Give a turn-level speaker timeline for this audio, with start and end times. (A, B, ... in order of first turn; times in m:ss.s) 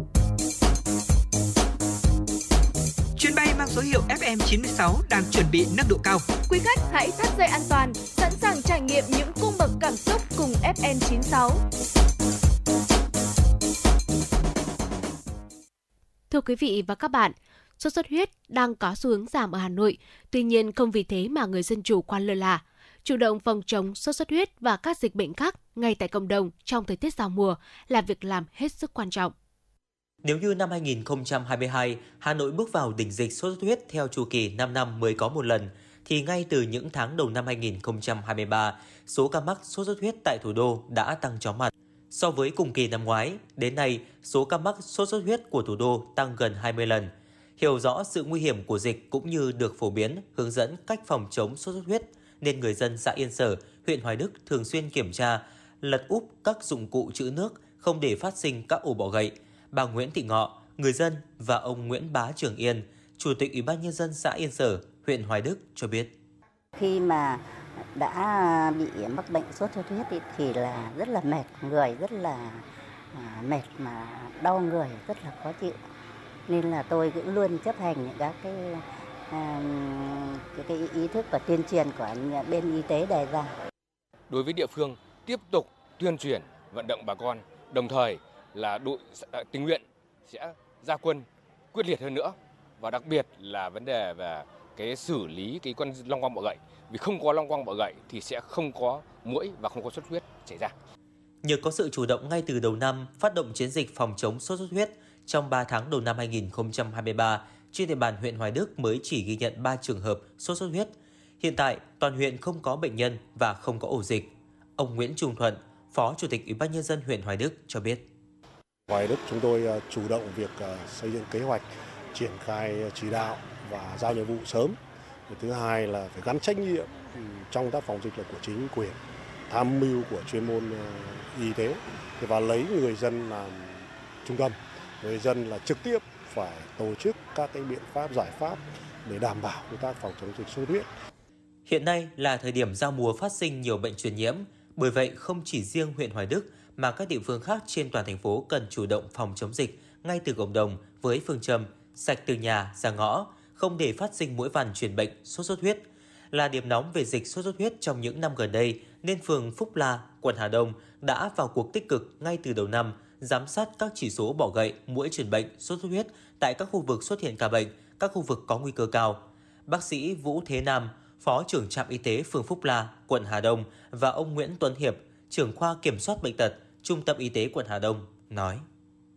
0:03.2-0:06.3 A
0:06.5-0:11.6 B
0:16.3-0:29.3 C
0:30.2-1:06.2 D
1:06.8-1:07.4 E
1:08.0-1:12.6 E
1:13.2-1:15.8 E
1:16.5-1:23.5 E
1:24.3-1:40.7 F
1:41.4-1:58.0 D
1:58.9-2:04.8 G
2:05.3-2:09.0 G
2:09.5-2:20.9 G
2:21.7-2:58.6 D